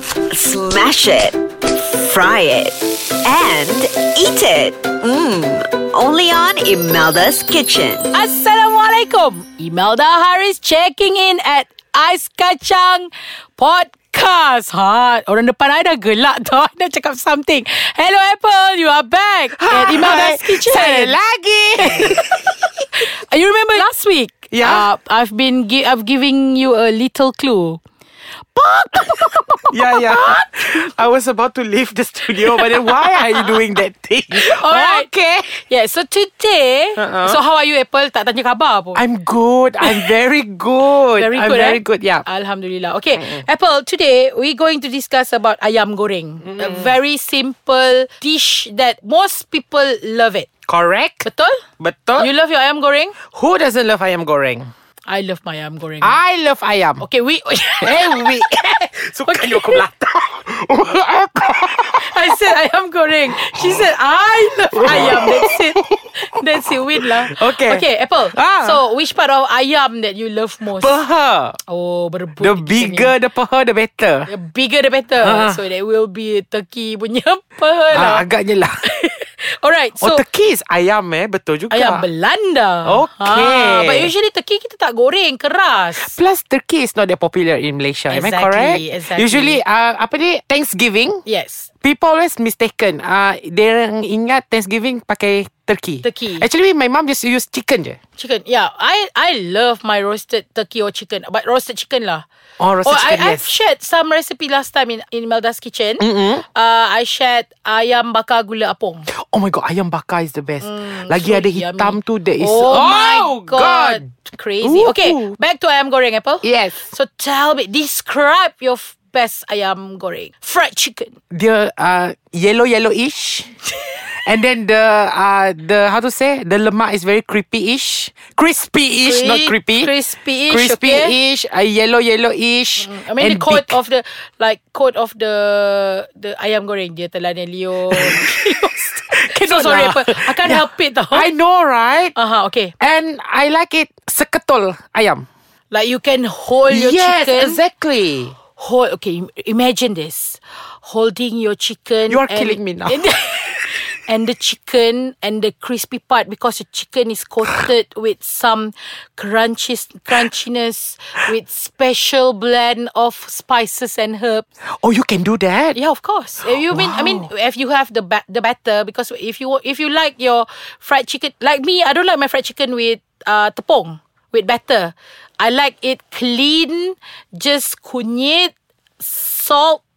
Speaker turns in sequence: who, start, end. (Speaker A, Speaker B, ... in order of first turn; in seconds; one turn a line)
Speaker A: 0.3-8.1
Speaker B: 8.1-21.2
Speaker C: 19.6-22.2
Speaker B: 21.8-22.4
Speaker B: 23.0-27.8
Speaker C: 24.5-24.9
Speaker B: 28.5-30.5
Speaker C: 28.9-35.5
Speaker B: 32.4-33.6
Speaker B: 34.3-39.0
Speaker C: 37.0-37.4
Speaker C: 38.9-42.2
Speaker B: 39.8-40.1
Speaker B: 41.1-50.5
Speaker C: 43.1-43.5
Speaker C: 46.4-46.9
Speaker C: 50.7-51.2
Speaker B: 51.2-51.6
Speaker C: 51.8-52.3
Speaker B: 52.2-53.1
Speaker C: 53.3-54.7
Speaker B: 55.1-56.2
Speaker C: 56.0-57.0
Speaker B: 57.0-58.5
Speaker C: 57.8-62.4
Speaker B: 59.2-59.8
Speaker B: 62.0-71.0
Speaker C: 63.3-63.9
Speaker C: 64.5-66.1
Speaker C: 67.0-68.8
Speaker C: 70.7-71.6
Speaker B: 71.6-73.1
Speaker C: 72.4-74.3
Speaker B: 74.3-78.3
Speaker C: 75.2-75.6
Speaker C: 77.9-78.8
Speaker B: 78.8-80.2
Speaker C: 80.0-82.1
Speaker B: 81.7-86.2
Speaker C: 82.8-84.1
Speaker C: 86.0-91.2
Speaker B: 88.1-89.6
Speaker B: 91.2-91.7
Speaker C: 91.8-98.0
Speaker B: 96.0-96.5
Speaker B: 98.2-102.2
Speaker C: 102.6-103.5
Speaker B: 102.8-109.1
Speaker C: 106.0-106.4
Speaker C: 109.2-114.1
Speaker B: 110.6-121.2
Speaker C: 114.6-115.3
Speaker C: 116.4-116.8
Speaker C: 121.3-123.5
Speaker C: 124.1-129.9
Speaker B: 129.0-131.2
Speaker C: 130.5-133.8
Speaker B: 132.8-141.3
Speaker C: 137.9-138.3
Speaker C: 139.1-142.1
Speaker B: 142.1-142.7
Speaker C: 142.8-145.3
Speaker B: 145.7-147.6
Speaker C: 146.7-148.3
Speaker B: 148.5-164.4
Speaker C: 152.1-153.0
Speaker C: 164.7-165.8
Speaker B: 165.7-179.8
Speaker C: 166.4-167.3